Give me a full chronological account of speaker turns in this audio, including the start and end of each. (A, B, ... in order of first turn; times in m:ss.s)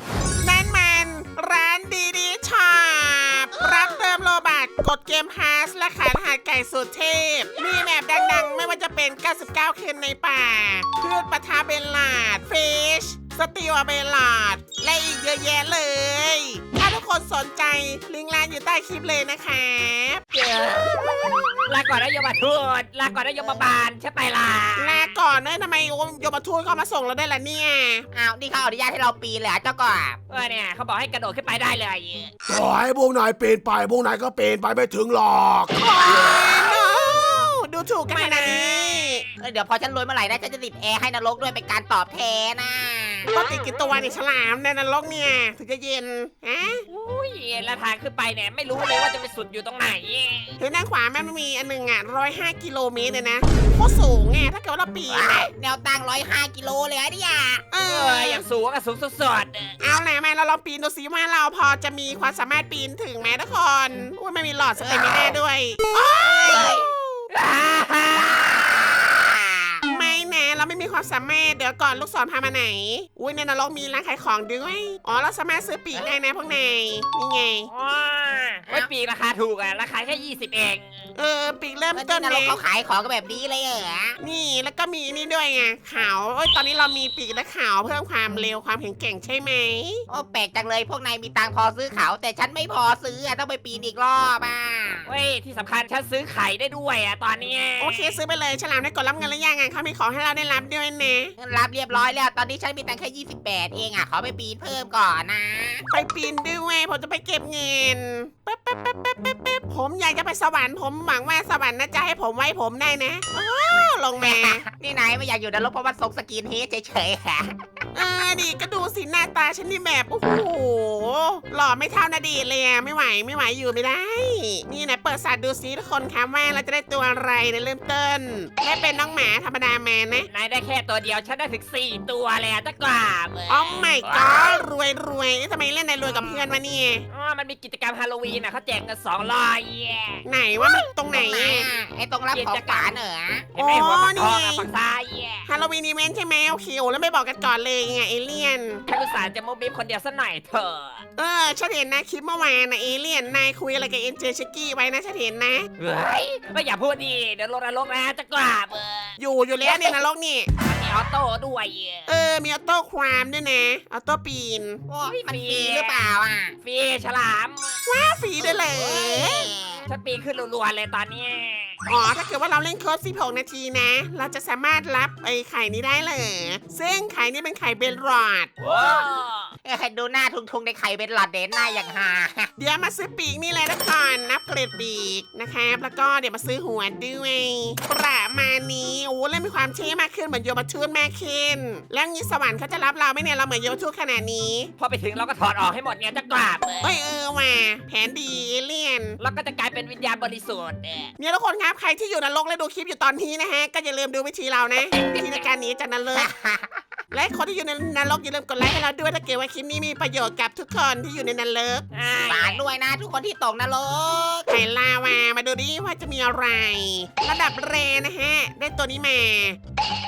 0:00.4-0:20.2 A
0:03.6-0:03.9 B
0:07.6-0:08.6 B
0:20.3-0:21.0 C
0:20.9-0:21.5 B
0:21.6-0:25.2 C
0:23.4-0:23.7 B
0:24.8-0:28.1 A
0:28.1-0:30.2 B
0:30.3-0:32.3 C
0:32.5-0:36.4 D
0:35.7-0:39.2 A
0:38.1-0:39.3 C
0:39.4-0:43.3 B
0:43.3-0:46.8 A
0:43.4-0:44.1 C
0:46.9-0:50.6 C
0:50.6-0:55.5 A
0:55.1-0:57.6 B
0:57.7-0:58.4 A
0:57.8-0:59.7 C
0:59.8-1:06.8 A
1:04.8-1:05.4 B
1:06.1-1:06.9 B
1:06.5-1:06.8 C
1:07.3-1:09.0 C
1:09.0-1:09.8 B
1:09.8-1:17.7 A
1:17.7-1:20.8 C
1:21.2-1:22.6 A
1:21.9-1:24.2 B
1:24.2-1:30.0 A
1:30.1-1:35.1 B
1:35.0-1:38.2 C
1:37.8-1:41.3 A
1:41.4-1:45.8 B
1:45.9-1:54.6 A
1:54.2-1:57.5 B
1:57.9-2:10.3 A
2:10.3-2:14.5 C
2:13.5-2:17.0 A
2:17.1-2:20.2 C
2:20.2-2:21.7 A
2:21.0-2:23.5 B
2:22.3-2:22.9 C
2:23.5-2:25.5 C
2:23.6-2:24.7 A
2:25.4-2:28.8 A
2:28.9-2:31.0 C
2:31.2-2:35.7 A
2:35.8-2:39.9 C
2:39.2-2:40.5 A
2:40.6-2:42.1 C
2:42.1-2:44.8 A
2:44.9-2:46.5 B
2:45.0-2:46.1 C
2:46.6-2:47.8 C
2:47.8-2:49.5 A
2:48.4-2:49.9 B
2:49.8-2:51.8 C
2:51.8-2:58.5 A
2:58.6-2:59.5 C
2:59.6-3:02.5 B
3:02.6-3:14.7 A
3:14.8-3:16.9 C
3:16.8-3:19.2 A
3:19.2-3:21.1 C
3:21.2-3:26.3 A
3:26.1-3:26.8 B
3:27.1-3:31.8 A
3:31.9-3:32.6 C
3:32.3-3:34.5 B
3:34.5-3:39.6 A